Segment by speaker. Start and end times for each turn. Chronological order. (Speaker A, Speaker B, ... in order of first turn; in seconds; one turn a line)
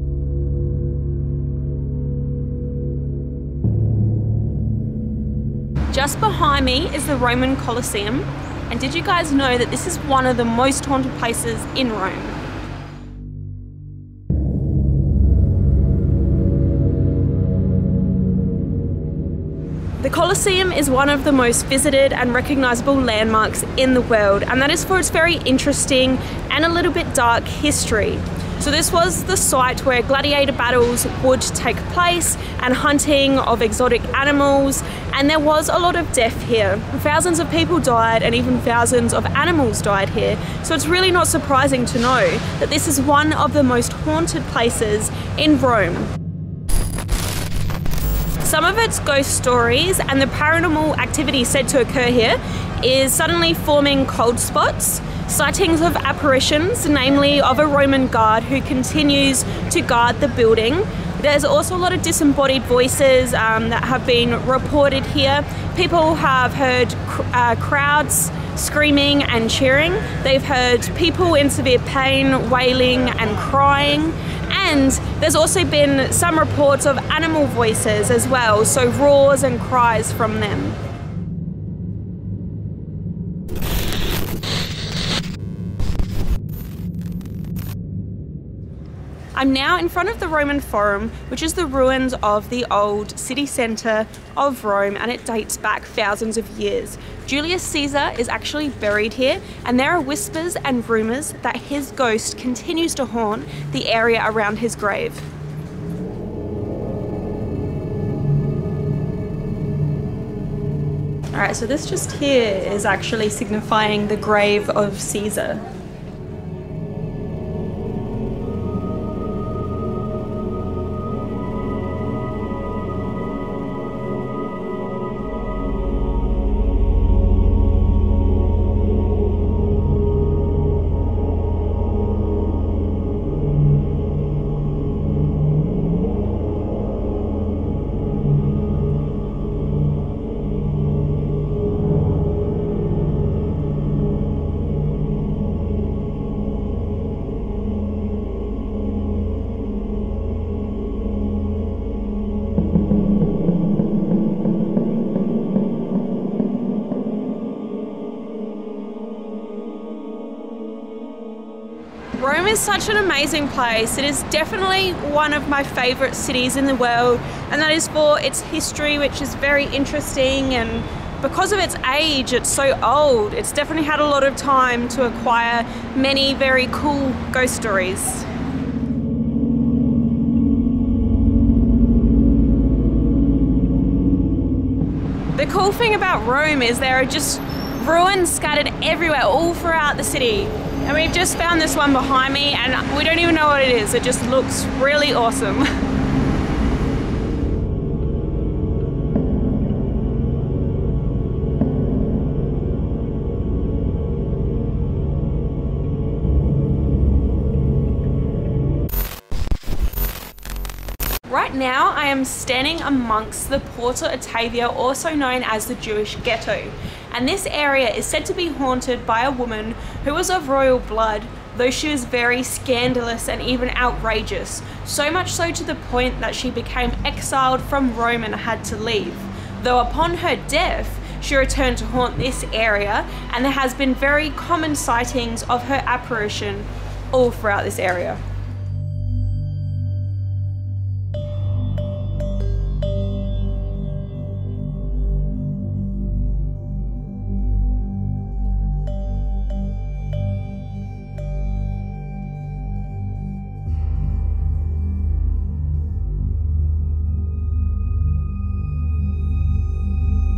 Speaker A: 5.9-12.4
Speaker A: 20.0-46.1
Speaker A: 48.4-80.8
Speaker A: 89.3-105.3
Speaker A: 111.3-115.7
Speaker A: 162.2-178.3
Speaker A: 185.3-195.7
Speaker A: 211.3-238.2